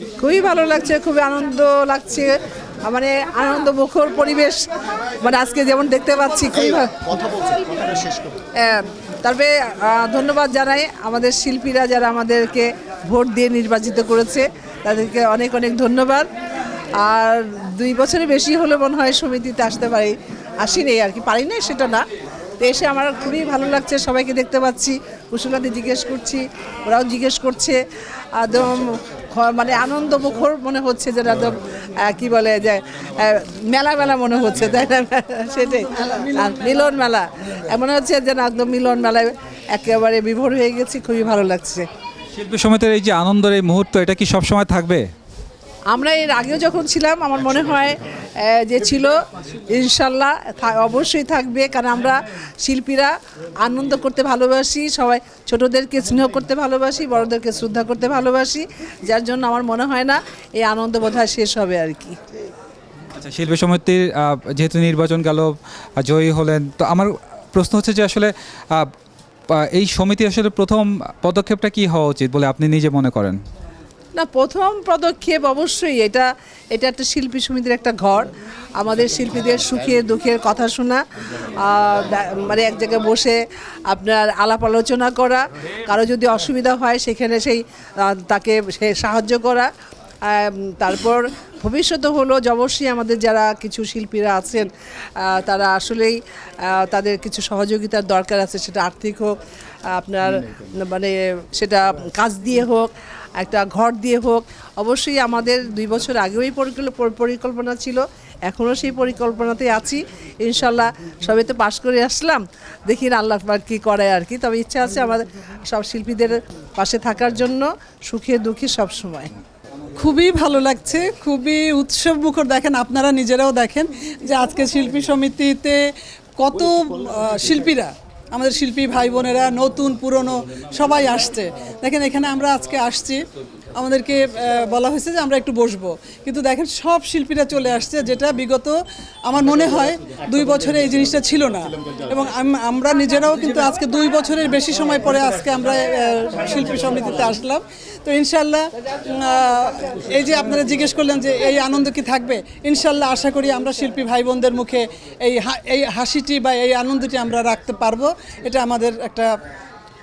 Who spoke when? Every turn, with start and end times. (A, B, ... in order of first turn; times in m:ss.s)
0:00.2-0:02.3 A
0:02.9-0:04.7 A
0:05.2-0:07.6 A
0:08.5-0:16.3 A
0:17.0-0:22.0 A
0:22.6-0:27.8 A
0:28.4-0:41.9 A
0:35.7-0:36.9 B
0:42.3-0:45.0 C
0:45.9-1:02.2 A
1:03.1-1:08.9 C
1:09.5-1:13.4 C
1:14.2-1:29.7 A
1:30.2-1:59.3 A
2:00.0-2:05.8 B
2:06.4-2:39.3 B